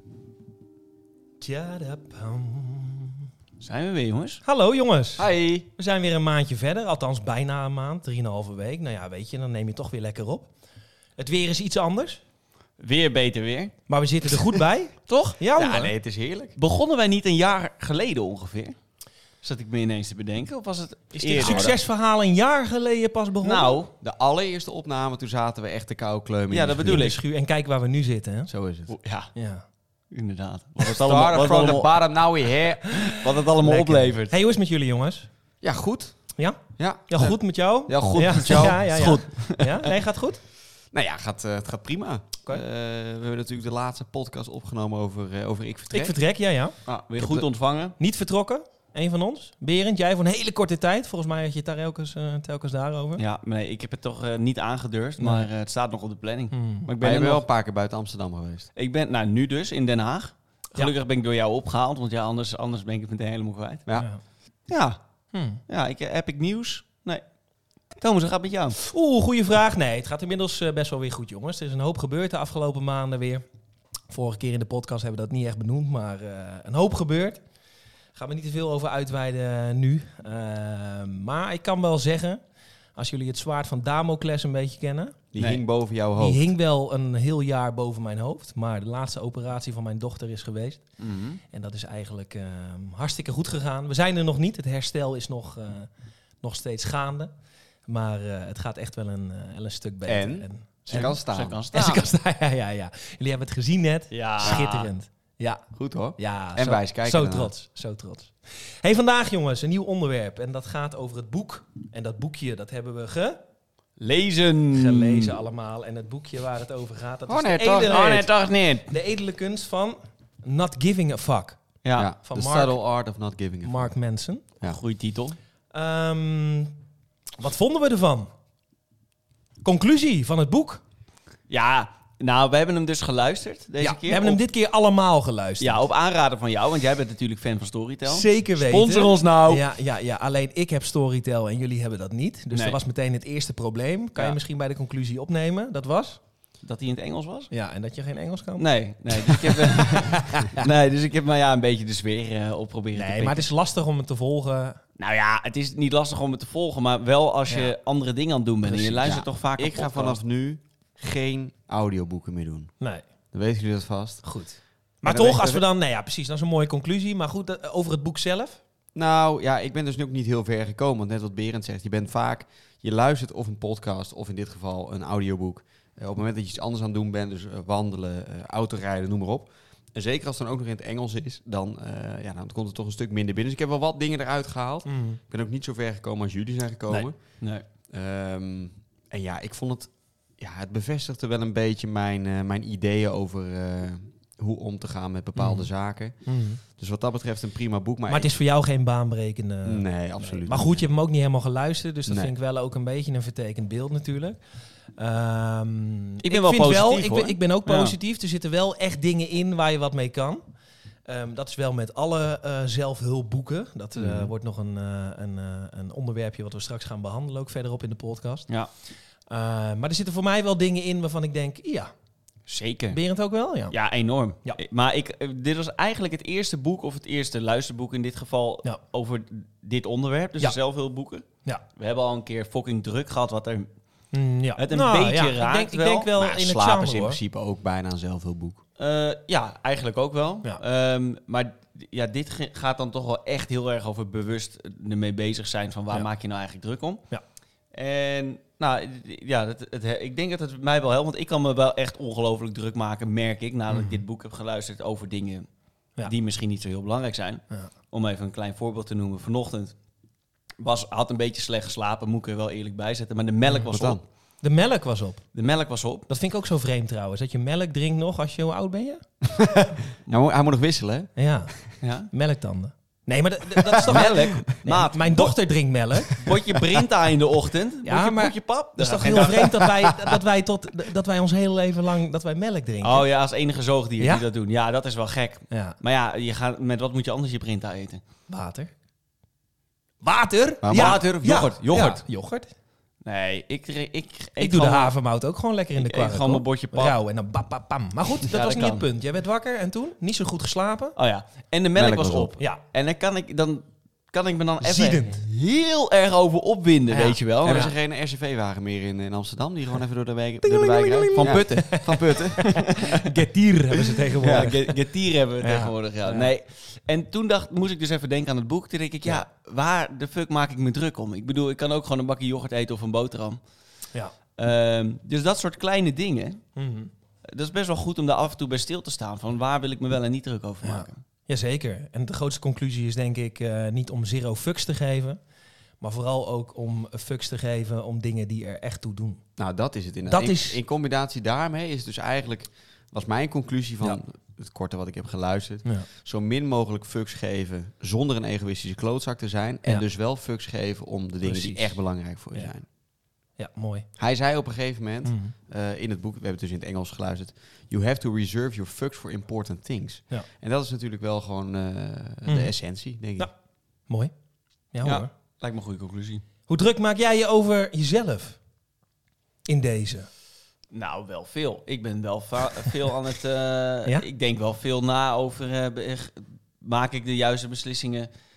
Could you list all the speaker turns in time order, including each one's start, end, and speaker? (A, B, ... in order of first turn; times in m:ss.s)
0:01.4-0:03.2 A
0:03.6-0:04.4 B
0:04.4-0:10.5 A
0:05.2-0:05.7 C
0:11.2-0:12.2 A
0:12.8-0:13.7 B
0:13.9-0:15.9 A
0:15.1-0:15.4 B
0:15.5-0:16.6 C
0:16.6-0:18.8 B
0:19.4-0:21.7 B
0:21.2-0:21.8 C
0:21.2-0:23.8 A
0:23.4-0:23.9 B
0:24.0-0:27.1 C
0:26.5-0:27.2 B
0:26.8-0:28.5 A
0:28.5-0:28.9 C
0:28.9-0:29.3 B
0:29.3-0:29.6 A
0:30.1-0:31.9 B
0:30.8-0:33.0 C
0:33.0-0:34.3 B
0:33.0-0:35.3 A
0:35.6-0:37.4 C
0:36.4-0:40.4 A
0:37.9-0:38.8 C
0:38.0-0:39.9 B
0:40.9-0:46.1 C
0:45.9-0:46.7 A
0:46.8-0:48.0 B
0:47.2-0:47.4 C
0:48.0-0:53.2 A
0:53.2-0:57.4 B
0:55.2-0:55.5 A
0:56.5-0:56.9 A
0:57.0-0:58.7 C
0:58.8-1:03.8 B
1:03.9-1:04.2 A
1:04.7-1:05.0 B
1:05.3-1:05.6 A
1:05.6-1:07.2 B
1:07.9-1:08.8 B
1:08.8-1:13.4 A
1:14.1-1:17.4 A
1:18.1-1:22.4 A
1:22.9-1:25.2 A
1:25.3-1:26.5 C
1:26.2-1:30.8 A
1:31.0-1:31.4 B
1:31.5-1:35.9 A
1:36.4-1:37.3 A
1:37.9-1:41.2 A
1:40.0-1:41.7 C
1:40.9-1:42.0 B
1:41.7-1:45.6 A
1:44.1-1:44.9 B
1:45.8-1:47.5 C
1:46.2-1:53.4 A
1:54.0-1:55.4 B
1:54.7-1:58.3 A
1:57.3-1:58.3 C
1:57.8-1:58.9 B
1:58.9-2:01.6 A
2:01.8-2:02.1 B
2:01.9-2:03.9 C
2:02.2-2:02.8 A
2:03.6-2:04.4 A
2:04.6-2:05.4 B
2:05.7-2:06.7 A
2:07.4-2:08.3 A
2:09.6-2:10.8 A
2:11.5-2:14.4 B
2:13.8-2:15.8 A
2:15.6-2:19.6 B
2:18.1-2:26.2 A
2:26.6-2:27.5 B
2:27.5-2:30.7 A
2:28.6-2:33.5 B
2:32.9-2:34.8 A
2:35.0-2:40.2 B
2:38.7-2:39.0 A
2:39.0-2:42.7 C
2:43.3-2:44.2 C
2:44.2-2:48.6 A
2:45.0-2:45.6 C
2:48.9-3:07.4 C
3:04.8-3:05.2 A
3:07.9-3:18.3 C
3:15.4-3:15.6 A
3:16.2-3:16.6 A
3:18.1-3:24.4 A
3:19.6-3:20.9 C
3:22.1-3:22.3 C
3:25.0-3:30.4 A
3:26.2-3:28.0 B
3:31.0-3:38.5 A
3:34.0-3:34.3 C
3:39.3-3:41.9 A
3:42.5-3:43.0 B
3:42.9-3:43.7 A
3:43.7-3:51.2 B
3:51.8-3:53.7 B
3:54.1-3:57.2 A
3:54.6-3:56.1 B
3:56.2-3:58.6 C
3:58.8-4:07.0 B
4:07.7-4:15.5 B
4:13.7-4:14.0 A
4:16.0-4:19.7 B
4:20.6-4:24.0 B
4:23.7-4:24.0 C
4:24.4-4:25.2 A
4:25.3-4:26.0 B
4:26.1-4:29.0 A
4:29.2-4:31.1 C
4:31.2-4:31.5 A
4:31.8-4:32.1 B
4:32.1-4:36.3 A
4:33.9-4:35.3 B
4:36.1-4:39.7 B
4:37.8-4:43.0 A
4:42.8-4:48.0 B
4:45.5-4:45.8 A
4:48.3-4:48.7 A
4:50.0-4:52.5 A
4:50.6-4:51.0 C
4:50.7-4:52.0 B
4:53.0-4:54.9 B
4:54.4-5:00.9 A
4:55.8-4:57.0 B
4:58.3-4:58.8 B
5:01.0-5:07.7 B
5:01.7-5:02.3 C
5:04.6-5:05.2 A
5:06.9-5:07.7 A
5:07.4-5:12.7 C
5:10.4-5:14.7 A
5:11.1-5:13.0 B
5:14.2-5:14.6 C
5:14.2-5:23.4 B
5:15.4-5:16.3 A
5:24.4-5:26.4 B
5:26.6-5:26.9 A
5:27.3-5:31.0 B
5:30.6-5:35.2 A
5:35.8-5:39.2 A
5:39.4-5:52.6 C
5:40.1-5:40.6 A
5:51.2-5:51.8 A
5:53.4-5:53.9 A
5:54.0-6:03.3 C
5:55.0-5:55.3 A
6:02.2-6:02.5 A
6:04.7-6:05.1 A
6:04.8-6:06.2 B
6:06.5-6:08.4 A
6:09.5-6:10.1 A
6:10.7-6:18.1 B